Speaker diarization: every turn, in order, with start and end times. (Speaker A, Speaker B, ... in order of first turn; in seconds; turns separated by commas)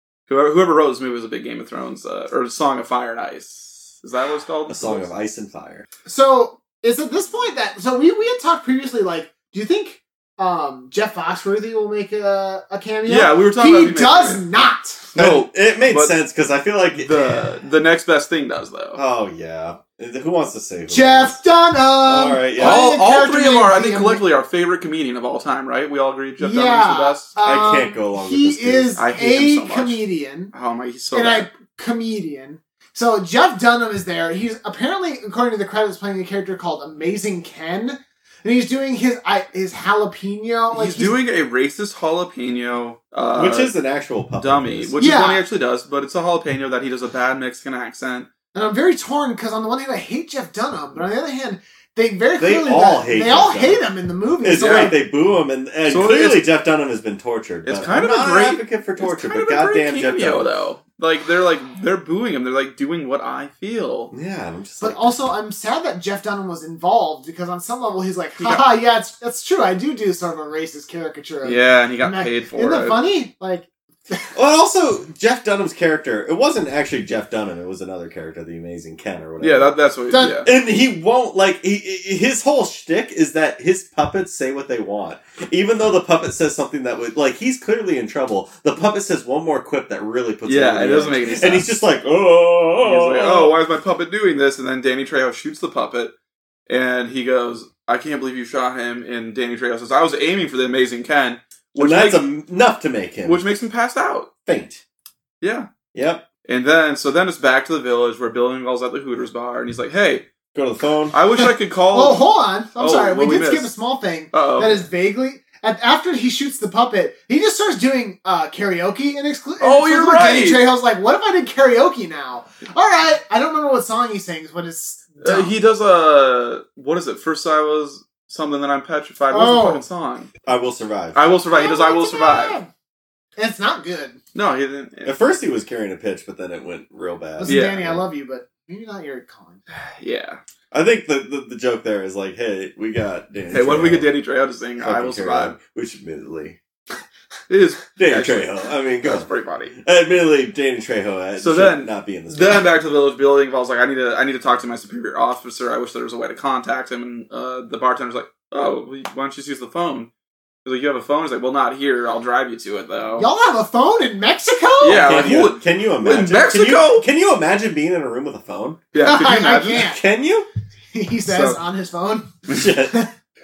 Speaker A: 0.3-5.1, Speaker B: 4.7-5.8, Speaker C: 6.0-15.0, Speaker A: 13.1-14.4, Speaker A: 15.1-16.2, Speaker B: 15.2-17.3, Speaker A: 16.9-19.0, Speaker B: 18.9-21.4, Speaker C: 20.9-24.2, Speaker B: 22.0-22.8, Speaker A: 22.6-27.3, Speaker C: 26.4-30.5, Speaker B: 27.4-28.9, Speaker A: 29.0-31.5, Speaker C: 31.1-41.1, Speaker A: 40.7-43.7, Speaker B: 43.3-44.9, Speaker A: 44.4-48.3, Speaker C: 45.0-45.4, Speaker C: 48.5-55.0, Speaker B: 52.4-53.8, Speaker B: 54.4-60.5, Speaker A: 54.6-54.9, Speaker A: 55.9-56.4, Speaker A: 57.6-64.1, Speaker B: 64.1-65.1, Speaker C: 64.8-74.2, Speaker A: 68.4-68.6, Speaker A: 71.4-73.0, Speaker B: 74.3-79.7, Speaker A: 79.4-80.5, Speaker C: 80.1-80.5, Speaker B: 80.4-93.5, Speaker A: 90.5-91.7, Speaker A: 92.8-96.1, Speaker A: 96.7-102.2, Speaker B: 101.8-103.4, Speaker A: 103.2-104.3, Speaker B: 104.5-104.8, Speaker A: 105.4-105.7, Speaker B: 105.9-106.3, Speaker A: 106.5-110.3, Speaker B: 110.5-111.2, Speaker A: 111.1-113.7, Speaker C: 111.3-125.5, Speaker A: 114.3-114.8, Speaker A: 119.6-120.7, Speaker A: 125.2-130.3, Speaker C: 129.3-129.8, Speaker B: 130.4-131.2, Speaker A: 131.1-132.6, Speaker C: 131.5-132.7, Speaker C: 133.4-134.2, Speaker A: 134.3-135.3, Speaker B: 135.0-138.0, Speaker C: 137.4-139.6, Speaker A: 137.4-137.9, Speaker A: 139.7-140.4, Speaker B: 140.7-144.1, Speaker A: 143.5-145.6, Speaker B: 144.8-146.6, Speaker A: 147.5-149.7, Speaker B: 147.9-152.7, Speaker A: 151.4-160.1, Speaker A: 160.6-163.3, Speaker C: 163.2-165.2, Speaker A: 164.8-167.0, Speaker B: 164.8-168.8, Speaker A: 168.9-169.8, Speaker C: 169.0-170.0, Speaker B: 169.7-170.5, Speaker C: 170.9-172.3, Speaker A: 171.3-171.6, Speaker B: 172.5-172.9